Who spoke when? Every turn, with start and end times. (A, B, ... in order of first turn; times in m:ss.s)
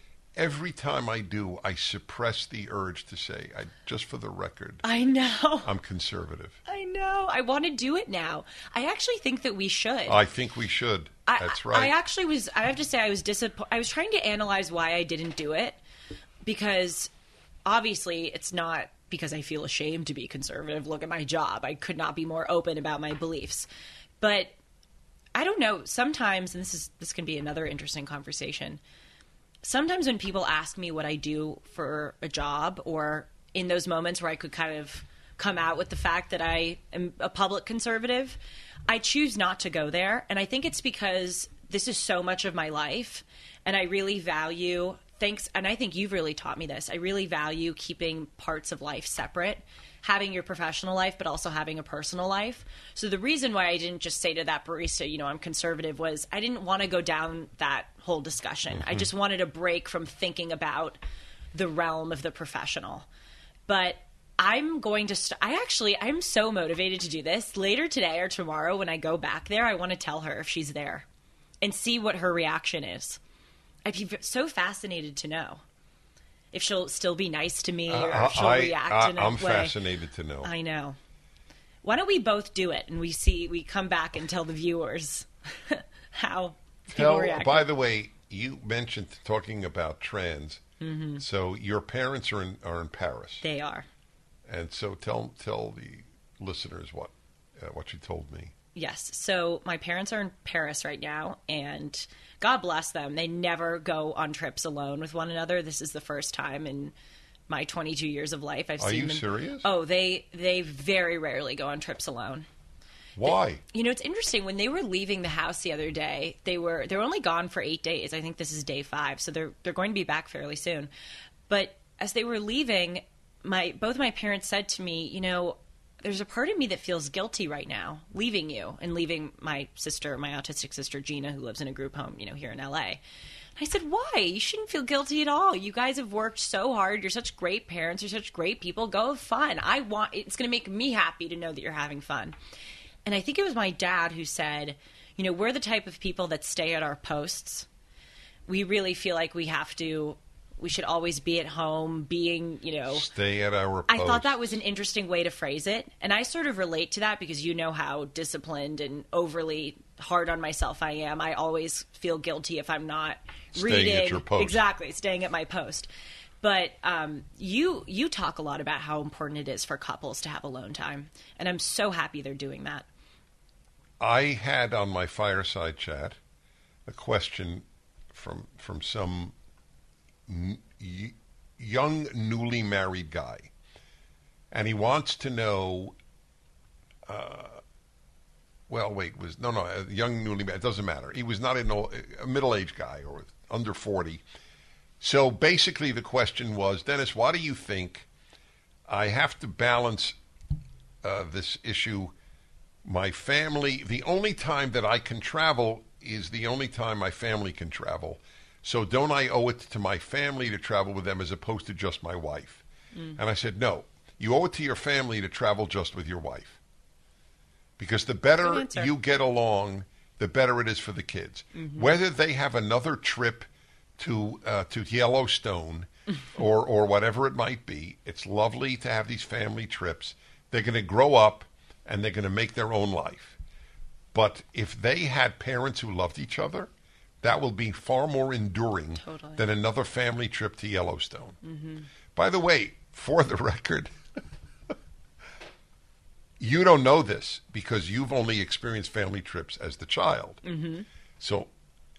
0:00.3-0:04.8 A
0:04.8-0:05.7 B
0:05.6-0:06.6 A
0:06.7-0:10.2 B
0:10.1-0:11.9 A
0:11.2-0:15.8 B
0:16.4-0:17.1 B
0:17.6-0:23.7 B
0:24.2-0:24.5 B
0:25.3-0:28.8 B
0:29.6-1:01.0 B
0:58.7-0:59.1 A
1:01.5-1:03.1 B
1:03.7-1:11.0 B
1:11.6-1:13.2 B
1:13.8-1:15.6 B
1:16.5-1:19.7 B
1:17.9-1:20.5 A
1:20.4-1:21.0 B
1:21.8-1:27.7 B
1:26.9-1:30.6 A
1:30.8-1:31.2 B
1:31.2-1:33.4 A
1:33.4-1:33.9 B
1:34.4-1:38.5 A
1:38.7-1:46.9 B
1:47.5-1:52.5 B
1:48.8-1:49.7 A
1:53.2-1:53.6 A
1:53.2-2:00.9 B
2:01.5-2:13.0 B
2:13.6-2:22.4 B
2:23.0-2:27.7 B
2:28.5-2:33.1 B
2:32.9-2:34.4 A
2:33.9-2:45.9 B
2:43.5-2:44.6 A
2:46.4-2:52.8 B
2:54.0-2:56.2 A
2:56.8-2:59.3 A
3:00.3-3:03.5 A
3:04.5-3:06.0 A
3:07.0-3:07.6 A
3:08.7-3:14.2 A
3:15.0-3:18.1 A
3:18.9-3:20.2 A
3:21.0-3:22.1 A
3:22.8-3:32.6 A
3:33.2-3:36.6 A
3:37.8-3:53.4 A
3:38.4-3:38.9 B
3:41.5-3:41.9 B
3:54.1-3:56.7 A
3:57.2-4:01.4 A
3:59.0-3:59.4 B
4:01.4-4:01.9 B
4:02.1-4:04.7 A
4:06.4-4:10.4 A
4:10.4-4:10.9 B
4:11.2-4:11.5 A